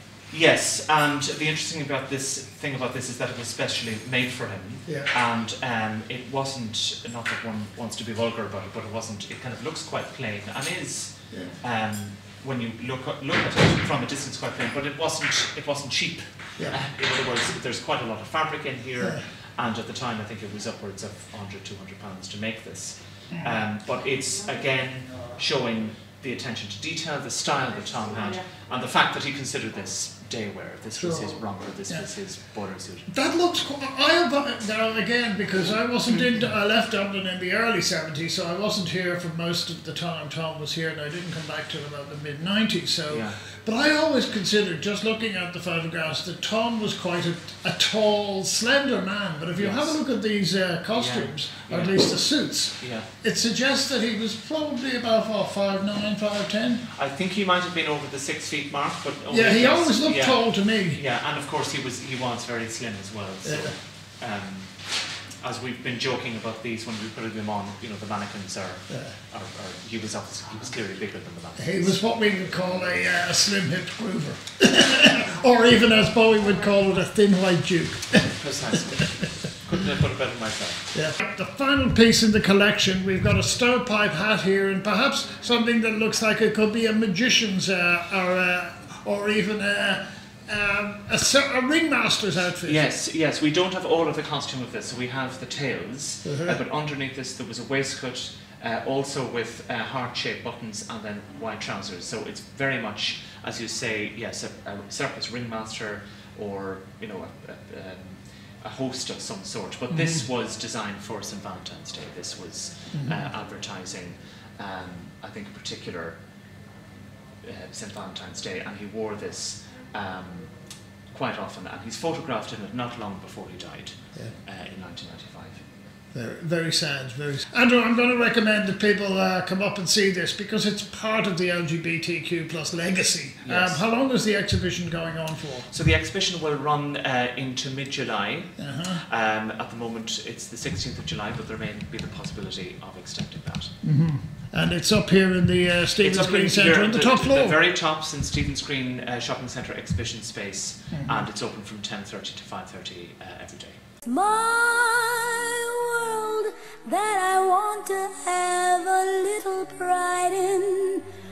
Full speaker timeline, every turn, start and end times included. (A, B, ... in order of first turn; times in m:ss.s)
0:00.3-0:33.1 A
0:04.9-0:05.1 B
0:23.3-0:23.6 B
0:31.0-0:32.1 B
0:33.1-0:56.9 B
0:36.1-0:36.4 A
0:43.1-0:43.4 A
0:49.6-0:50.0 A
0:50.9-0:52.2 A
0:52.8-0:53.1 A
0:56.9-1:12.0 A
0:59.3-1:01.0 B
1:03.4-1:03.7 B
1:11.6-1:19.2 B
1:18.2-1:20.9 A
1:20.9-1:32.8 B
1:32.6-1:56.2 A
1:36.2-1:36.6 B
1:49.9-1:50.2 B
1:52.9-1:53.2 B
1:57.4-2:00.5 A
2:01.1-2:05.6 A
2:06.1-2:15.7 B
2:13.4-2:13.8 A
2:15.7-2:23.8 A
2:18.6-2:19.0 B
2:23.8-2:27.6 B
2:26.0-2:33.8 A
2:30.9-2:31.2 B
2:34.0-2:41.0 C